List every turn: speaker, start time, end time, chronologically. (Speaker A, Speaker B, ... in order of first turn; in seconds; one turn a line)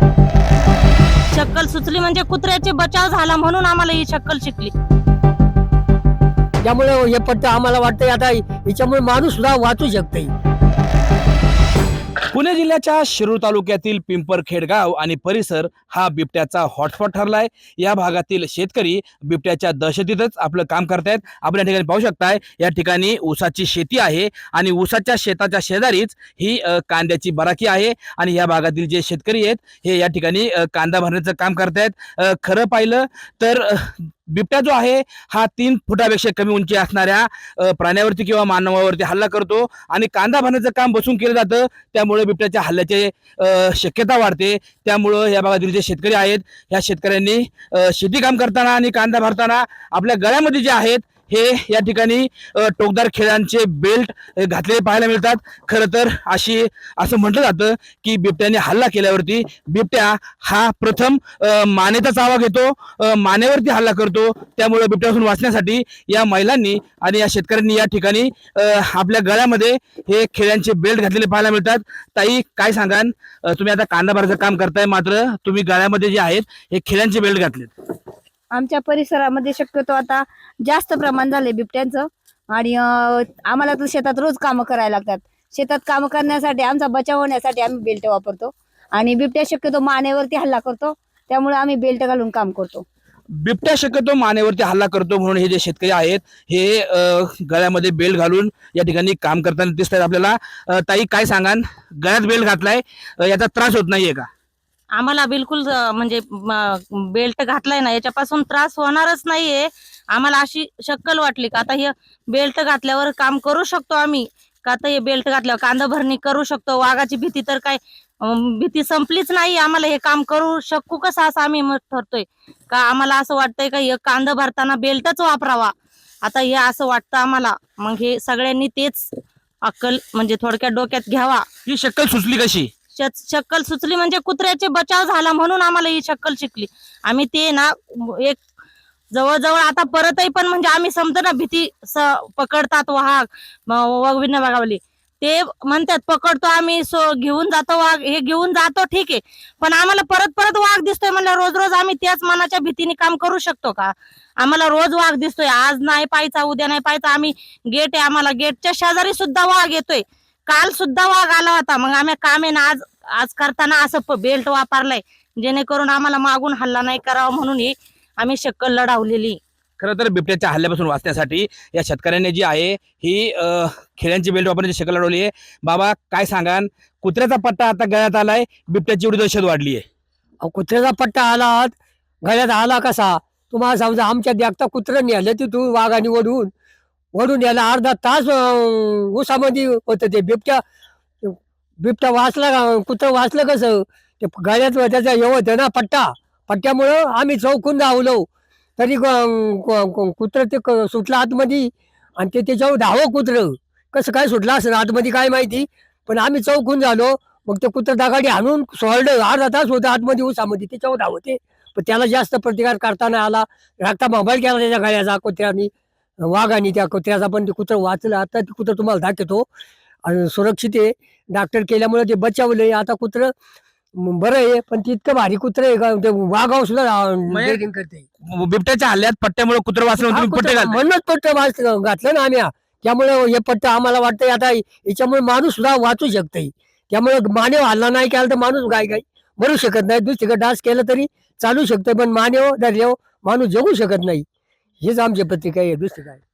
Speaker A: 1.3-4.7
Speaker B: 6.6-10.3
Speaker C: 12.3-77.7
Speaker D: 78.5-92.8
Speaker C: 93.3-104.3
Speaker A: 104.9-125.7
Speaker A: 126.2-129.1
Speaker A: 129.6-131.4
Speaker C: 131.7-132.7
Speaker A: 132.9-138.4
Speaker A: 139.1-169.4
Speaker C: 169.8-179.8
Speaker B: 180.4-186.5
Speaker B: 187.1-190.6
Speaker B: 191.2-198.2
Speaker B: 198.8-215.7
Speaker B: 216.2-219.5
Speaker B: 220.0-223.3
Speaker B: 223.9-228.1
Speaker C: 227.3-227.6
Speaker C: 228.2-230.8
Speaker B: 230.0-244.2
Speaker B: 244.8-246.2